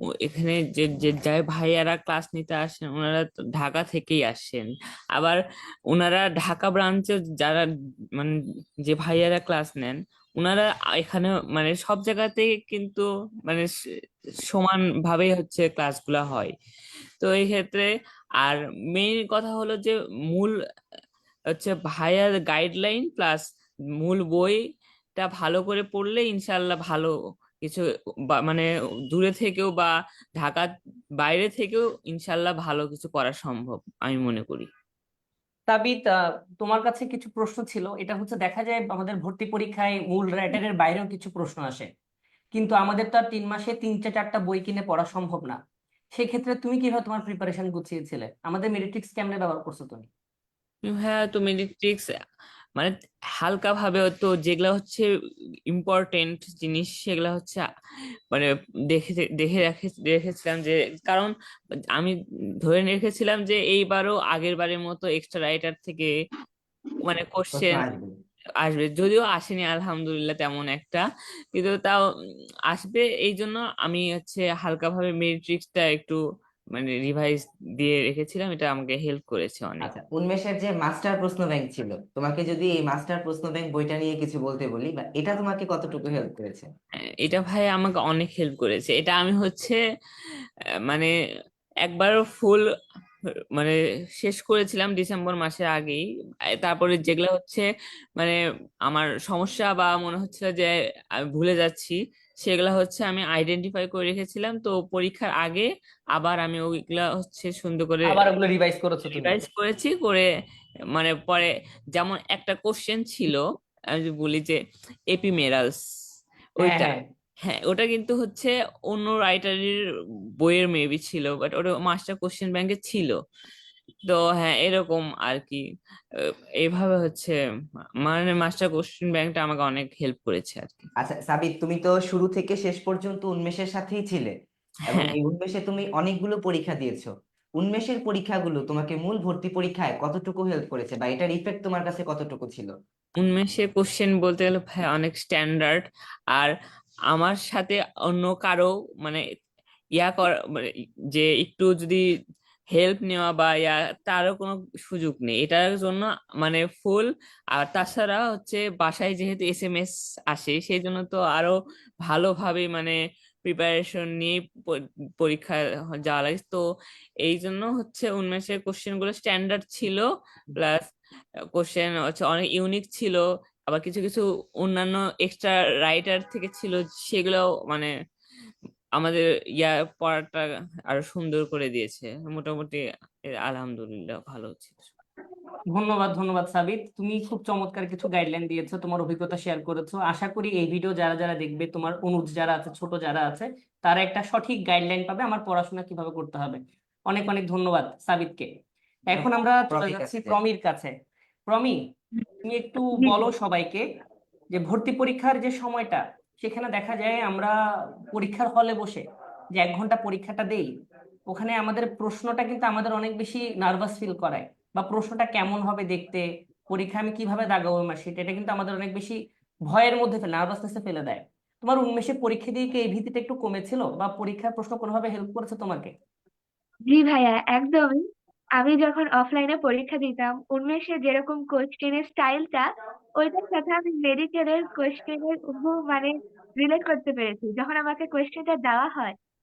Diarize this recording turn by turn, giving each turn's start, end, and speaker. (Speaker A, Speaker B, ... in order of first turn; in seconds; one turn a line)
Speaker A: 0.2-5.4
Speaker A: 5.9-13.7
Speaker A: 14.5-16.5
Speaker A: 17.2-17.9
Speaker A: 18.4-20.5
Speaker A: 21.6-23.4
Speaker A: 24.0-24.6
Speaker A: 25.1-27.8
Speaker A: 28.4-34.7
Speaker B: 35.7-41.9
Speaker B: 42.5-45.6
Speaker B: 46.1-50.1
Speaker A: 50.9-52.0
Speaker A: 52.8-55.0
Speaker A: 55.7-57.6
Speaker A: 58.3-61.3
Speaker A: 62.0-66.1
Speaker A: 67.0-67.9
Speaker C: 67.5-68.1
Speaker A: 68.6-72.0
Speaker A: 72.7-76.2
Speaker A: 76.7-79.9
Speaker C: 79.8-86.7
Speaker A: 87.2-89.8
Speaker A: 90.9-91.1
Speaker A: 91.8-92.6
Speaker A: 93.5-96.0
Speaker A: 96.6-97.6
Speaker A: 98.2-100.7
Speaker A: 101.3-108.3
Speaker B: 108.0-109.4
Speaker A: 109.1-110.3
Speaker A: 110.9-113.4
Speaker A: 114.0-114.6
Speaker A: 115.1-115.8
Speaker A: 116.6-116.9
Speaker B: 116.6-117.0
Speaker A: 117.4-119.8
Speaker A: 120.4-123.1
Speaker A: 124.0-125.6
Speaker A: 126.6-127.3
Speaker A: 128.0-130.9
Speaker C: 131.0-134.3
Speaker C: 134.9-142.7
Speaker A: 134.9-135.2
Speaker A: 143.2-145.8
Speaker A: 147.1-149.2
Speaker A: 150.0-152.0
Speaker A: 152.7-162.9
Speaker A: 163.4-166.6
Speaker A: 167.2-170.9
Speaker A: 171.6-177.9
Speaker A: 178.9-182.8
Speaker A: 183.4-184.9
Speaker B: 185.7-198.5
Speaker B: 199.1-200.9
Speaker C: 199.1-200.3
Speaker B: 201.5-201.8
Speaker B: 202.4-203.8
Speaker D: 203.0-203.3
Speaker B: 204.5-207.6
Speaker B: 208.1-210.7
Speaker B: 211.3-225.9
Speaker D: 226.9-228.0
Speaker D: 228.6-239.2